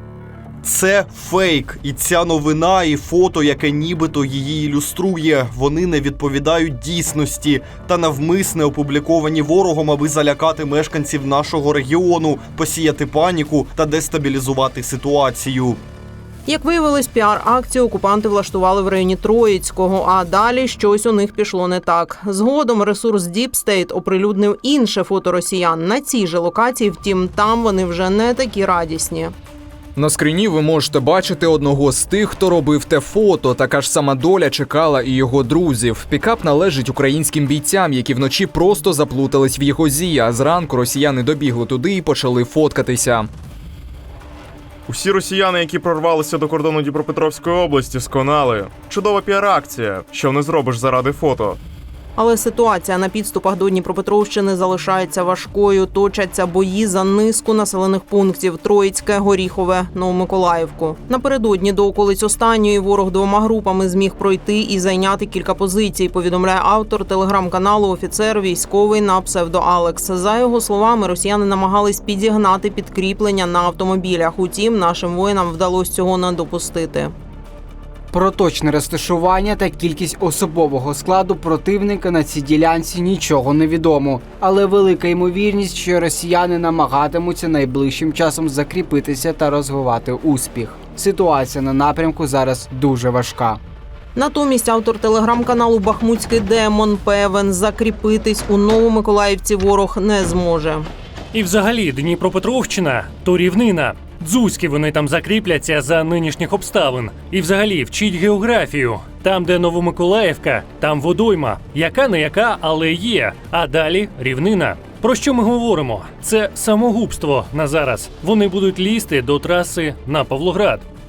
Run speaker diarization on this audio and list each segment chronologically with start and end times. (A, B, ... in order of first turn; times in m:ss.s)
0:00.6-0:15.8 A
0:16.4-0:29.3 B
0:30.0-0:43.3 C
0:44.9-0:51.6 D
0:52.2-1:17.1 B
1:18.1-1:33.6 E
1:34.1-1:40.9 B
1:41.3-2:00.8 F